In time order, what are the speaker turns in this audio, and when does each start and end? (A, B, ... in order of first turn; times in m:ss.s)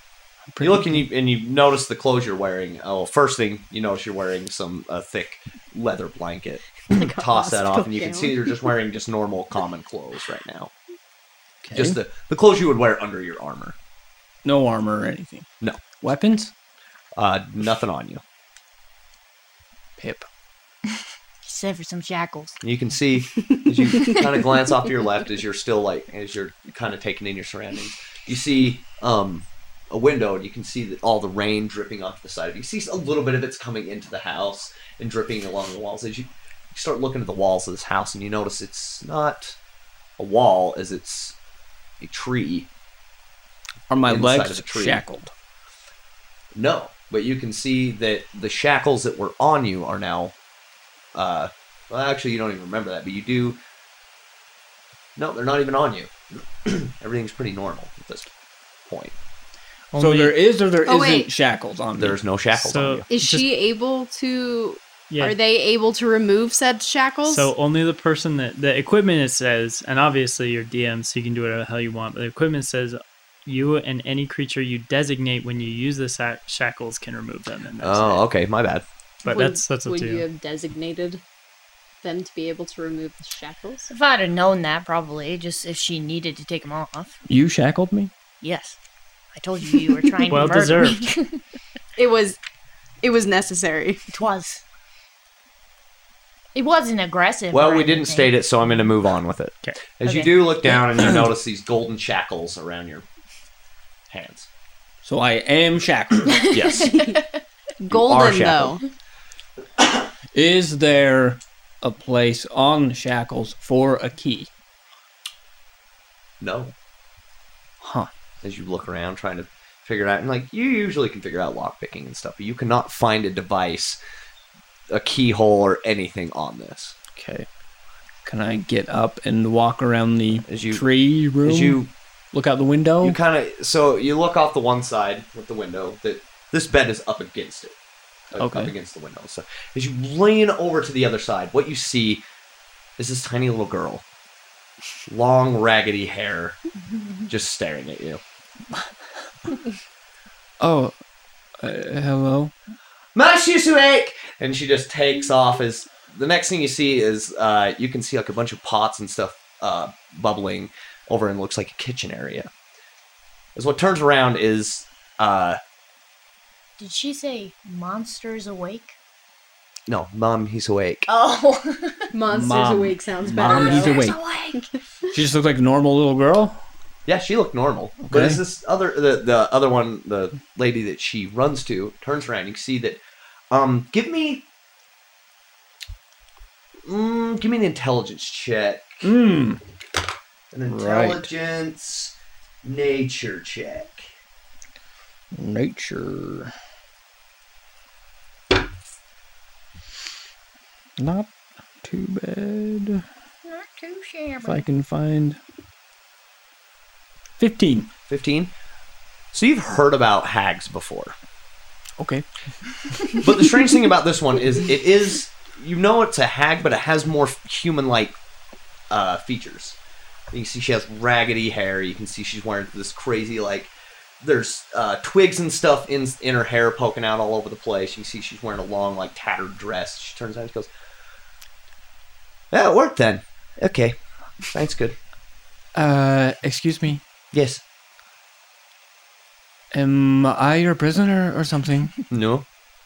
0:00.5-0:01.0 A
0:00.6-0:10.7 B
0:06.9-0:08.7 C
0:11.6-0:12.0 A
0:11.7-0:13.8 B
0:14.4-0:16.5 A
0:17.2-0:18.2 B
0:20.0-0:20.3 A
0:21.4-0:22.6 D
0:22.6-0:39.6 B
0:40.2-0:41.4 B
0:42.0-0:42.7 B
0:43.9-0:45.3 A
0:44.0-0:45.0 B
0:46.5-0:50.3 B
0:51.1-0:53.6 B
0:55.2-0:56.1 B
0:56.6-0:58.3 B
0:58.9-0:59.1 B
0:59.9-1:00.4 E
0:59.9-1:02.2 A
1:00.8-1:01.3 C
1:01.9-1:03.0 B
1:02.5-1:03.5 E
1:03.1-1:07.5 C
1:05.1-1:05.4 E
1:07.2-1:18.3 E
1:17.8-1:18.8 B
1:19.2-1:20.2 E
1:19.2-1:21.2 C
1:22.0-1:23.9 C
1:23.9-1:27.2 D
1:27.3-1:28.1 A
1:28.4-1:28.8 D
1:29.3-1:31.4 D
1:30.3-1:31.1 E
1:32.0-1:32.4 C
1:33.0-1:34.0 C
1:34.1-1:34.6 D
1:36.5-1:38.4 D
1:37.5-1:43.0 B
1:40.0-1:40.8 D
1:44.1-1:44.5 B
1:45.0-1:46.5 A
1:46.3-1:47.4 D
1:46.5-1:47.1 B
1:47.8-1:48.8 C
1:47.9-1:48.8 B
1:50.3-1:54.5 A
1:56.4-1:56.7 B
1:57.8-1:58.1 A
1:58.4-2:04.0 B
2:04.9-2:07.0 B
2:07.1-2:07.5 A
2:08.2-2:13.2 A
2:10.4-2:10.8 B
2:11.4-2:11.9 B
2:13.0-2:17.7 B
2:18.3-2:22.2 B
2:18.4-2:18.7 A
2:23.0-2:24.0 B
2:25.1-2:26.6 B
2:27.3-2:28.2 B
2:30.6-2:30.9 A
2:31.6-2:32.5 A
2:33.1-2:42.5 B
2:43.5-2:45.6 B
2:46.8-2:49.0 D
2:49.9-2:51.1 B
2:51.1-2:52.1 D
2:52.1-2:55.1 C
2:52.3-2:54.2 A
2:53.4-2:54.6 D
2:55.1-2:56.6 A
2:57.0-3:03.0 B
2:58.0-2:58.4 A
3:03.5-3:04.4 B
3:06.8-3:09.1 B
3:09.0-3:09.6 A
3:10.5-3:14.1 B
3:10.7-3:11.3 A
3:15.3-3:16.5 A
3:21.0-3:21.3 A
3:21.8-3:23.0 A
3:23.4-3:24.6 D
3:24.4-3:25.4 A
3:27.4-3:27.9 A
3:28.1-3:28.5 B
3:29.3-3:31.1 B
3:32.0-3:33.2 A
3:33.2-3:38.1 B
3:38.9-3:39.8 B
3:40.3-3:50.7 B
3:52.5-3:55.0 B
3:55.7-3:57.0 A
3:57.3-3:57.6 B
3:59.7-4:02.0 A
4:02.1-4:02.4 B